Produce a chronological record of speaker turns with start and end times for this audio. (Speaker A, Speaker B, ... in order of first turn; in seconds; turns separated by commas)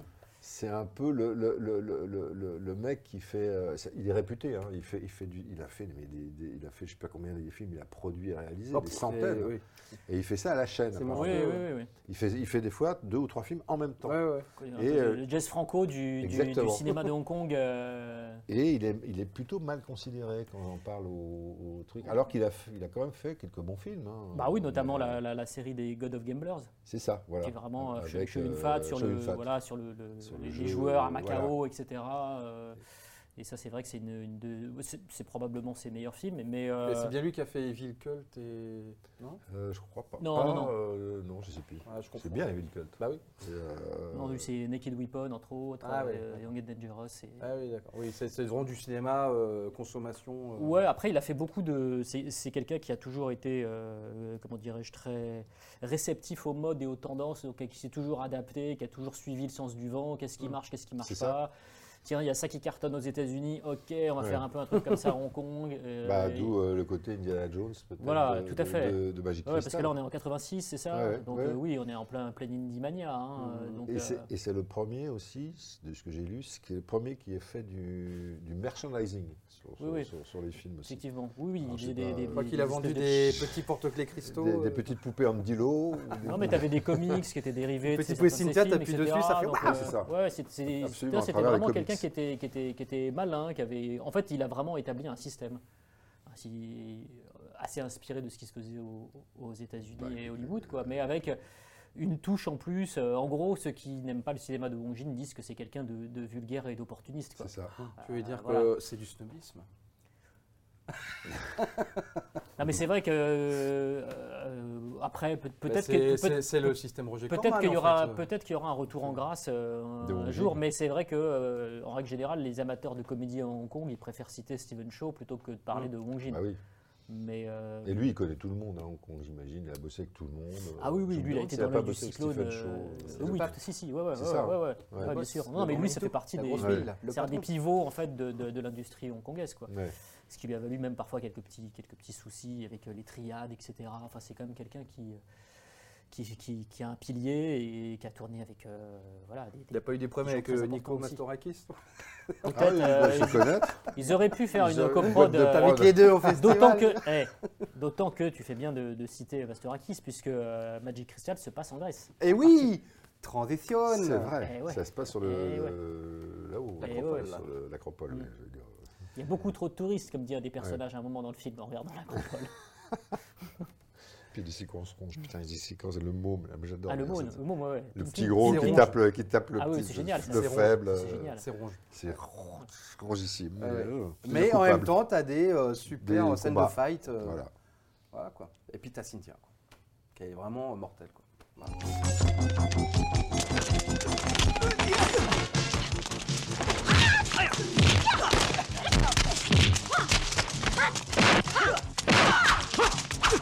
Speaker A: 0.4-9.6, Speaker B: 8.7-9.6, Speaker A: 10.1-11.6, Speaker B: 10.9-11.7, Speaker C: 11.1-11.9, Speaker A: 12.1-14.2, Speaker B: 14.0-14.5, Speaker C: 14.6-18.4, Speaker A: 14.8-15.2, Speaker A: 16.2-17.1, Speaker A: 18.5-25.2, Speaker C: 24.3-26.7, Speaker A: 26.9-29.5, Speaker C: 27.4-32.8, Speaker A: 30.2-31.6, Speaker C: 33.4-37.1, Speaker B: 36.8-39.4, Speaker A: 39.5-44.5, Speaker C: 40.2-40.8, Speaker B: 41.9-42.5, Speaker B: 43.0-43.2, Speaker C: 44.1-47.5, Speaker B: 45.8-46.4, Speaker B: 47.4-50.8, Speaker C: 50.6-61.5, Speaker A: 61.0-61.4, Speaker C: 62.0-66.5, Speaker A: 66.0-69.9, Speaker C: 68.0-74.3, Speaker A: 70.9-71.6, Speaker B: 73.4-73.7, Speaker A: 73.9-81.0, Speaker C: 79.8-80.1, Speaker C: 80.8-83.4, Speaker A: 81.6-82.5, Speaker B: 82.3-84.8, Speaker A: 84.2-87.2, Speaker C: 86.2-95.6, Speaker B: 87.8-89.9, Speaker A: 89.5-90.1, Speaker A: 90.7-92.1, Speaker C: 96.3-101.4, Speaker A: 99.9-101.1, Speaker C: 102.0-108.7, Speaker A: 107.4-107.9, Speaker B: 108.0-109.7, Speaker B: 111.6-112.0, Speaker C: 112.6-116.7, Speaker B: 115.7-118.2, Speaker C: 117.3-126.4, Speaker A: 120.0-120.6, Speaker A: 126.3-126.6, Speaker C: 127.1-128.1, Speaker A: 127.8-133.6, Speaker C: 130.8-139.7, Speaker B: 133.2-133.6, Speaker A: 134.1-135.2, Speaker B: 135.0-137.5, Speaker A: 136.5-136.9, Speaker A: 139.7-139.9, Speaker C: 140.3-145.2, Speaker C: 146.1-151.2, Speaker B: 149.7-151.8, Speaker B: 152.3-153.4, Speaker C: 152.5-162.1, Speaker A: 152.5-153.9, Speaker A: 154.5-156.8, Speaker B: 155.1-157.1, Speaker B: 162.2-164.3, Speaker A: 163.9-168.8, Speaker C: 164.4-165.8, Speaker B: 166.8-167.4, Speaker C: 166.8-167.3, Speaker C: 169.2-172.6, Speaker A: 174.3-177.4, Speaker C: 176.9-178.9, Speaker A: 177.9-181.4, Speaker B: 178.4-178.9, Speaker C: 179.6-181.5, Speaker B: 180.2-181.8, Speaker A: 181.9-185.1, Speaker B: 183.6-187.4, Speaker A: 186.0-187.5, Speaker B: 188.1-189.5, Speaker B: 190.2-191.8